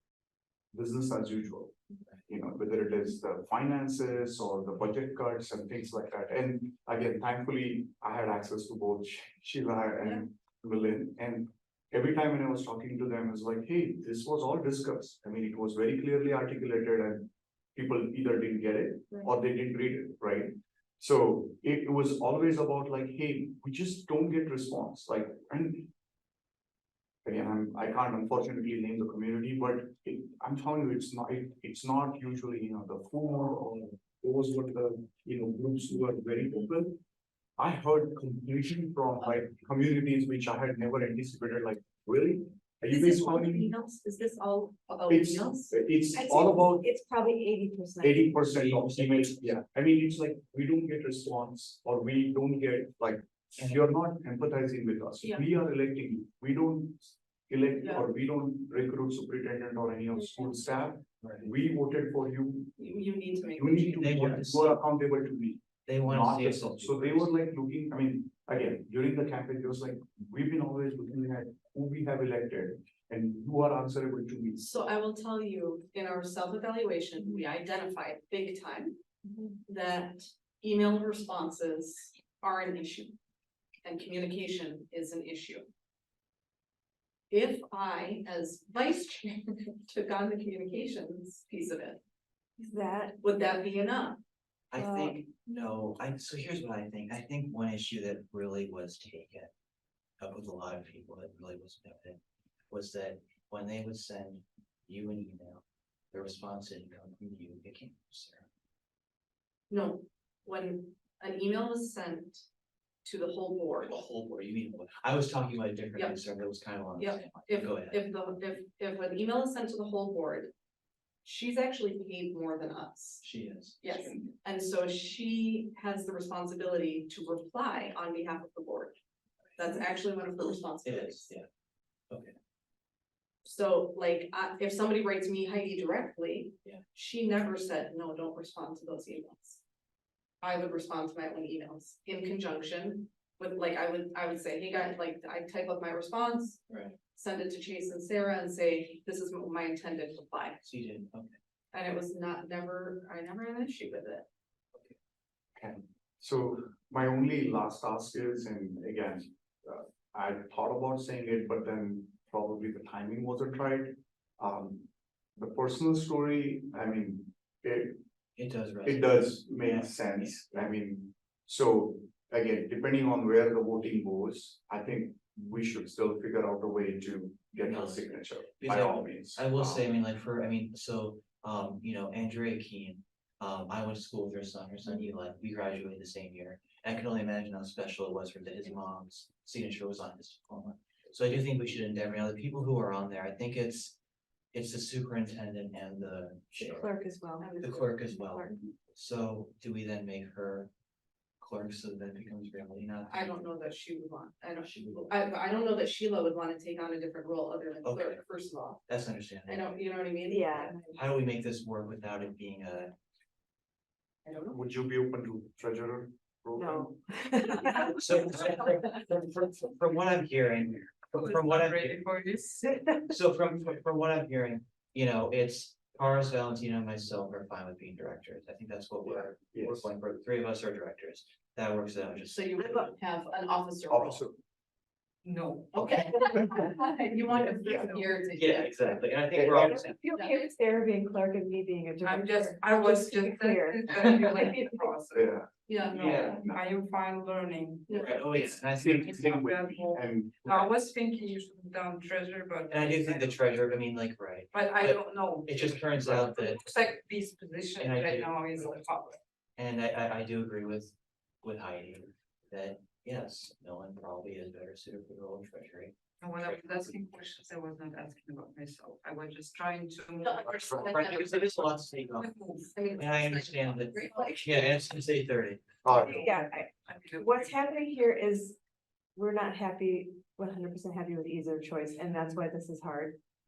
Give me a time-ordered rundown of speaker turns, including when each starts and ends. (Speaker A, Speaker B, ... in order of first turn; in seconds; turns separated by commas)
Speaker A: 0.7-1.8, Speaker A: 2.3-25.9, Speaker A: 27.2-37.0, Speaker A: 37.6-43.7, Speaker B: 42.9-45.7, Speaker A: 45.1-46.9, Speaker C: 46.1-48.4, Speaker A: 48.0-62.8, Speaker D: 48.6-49.5, Speaker B: 57.8-58.0, Speaker D: 61.2-61.5, Speaker B: 62.8-64.0, Speaker A: 63.6-74.9, Speaker D: 64.0-64.8, Speaker D: 65.9-67.3, Speaker B: 74.6-79.0, Speaker B: 79.7-83.2, Speaker B: 83.8-85.7, Speaker B: 87.3-92.0, Speaker C: 92.6-93.2, Speaker B: 93.2-94.2, Speaker D: 94.7-99.5, Speaker C: 94.8-95.2, Speaker D: 100.2-108.5, Speaker B: 109.7-112.5, Speaker B: 113.0-113.9, Speaker D: 113.8-118.1, Speaker B: 115.9-116.2, Speaker B: 117.0-120.5, Speaker B: 121.2-123.2, Speaker D: 123.2-124.4, Speaker B: 123.8-129.0, Speaker B: 129.6-131.3, Speaker D: 130.6-131.5, Speaker D: 132.1-132.3, Speaker B: 133.4-139.6, Speaker B: 140.4-146.6, Speaker D: 146.7-147.0, Speaker B: 147.1-150.6, Speaker D: 150.6-151.4, Speaker B: 151.7-154.3, Speaker A: 155.6-168.0, Speaker D: 168.4-170.7, Speaker A: 168.8-179.9, Speaker D: 177.7-178.0, Speaker D: 178.6-194.0, Speaker D: 194.5-196.9, Speaker C: 196.6-197.5, Speaker B: 197.4-198.0, Speaker D: 197.6-200.7, Speaker C: 198.1-198.6, Speaker D: 201.4-203.5, Speaker B: 203.0-208.8, Speaker D: 204.5-205.1, Speaker D: 207.8-208.3, Speaker D: 208.8-209.8, Speaker B: 209.4-210.7, Speaker C: 210.3-211.0, Speaker D: 210.6-212.9, Speaker A: 214.4-216.9, Speaker C: 216.6-218.5, Speaker D: 218.0-222.0, Speaker E: 221.1-223.0, Speaker C: 222.7-223.0, Speaker D: 223.1-233.0, Speaker A: 229.1-229.9, Speaker B: 232.3-234.2, Speaker A: 233.9-234.4, Speaker E: 235.2-236.7, Speaker D: 235.8-236.5, Speaker B: 235.8-238.7, Speaker E: 237.3-238.1, Speaker A: 237.6-237.9, Speaker D: 238.3-240.2, Speaker A: 239.3-239.8, Speaker C: 239.5-244.9, Speaker E: 242.0-253.5, Speaker A: 245.1-245.5, Speaker B: 245.7-246.0, Speaker D: 246.0-246.4, Speaker A: 246.1-246.6, Speaker D: 247.9-249.2, Speaker A: 248.7-250.7, Speaker D: 252.7-256.6, Speaker E: 254.5-259.2, Speaker D: 257.8-258.4, Speaker D: 259.6-266.6, Speaker E: 266.2-271.4, Speaker B: 270.2-271.5, Speaker D: 270.7-272.3, Speaker E: 272.1-272.8, Speaker B: 272.7-274.4, Speaker D: 273.0-275.8, Speaker A: 275.8-276.2, Speaker E: 275.9-277.6, Speaker C: 276.1-278.6, Speaker C: 279.2-283.2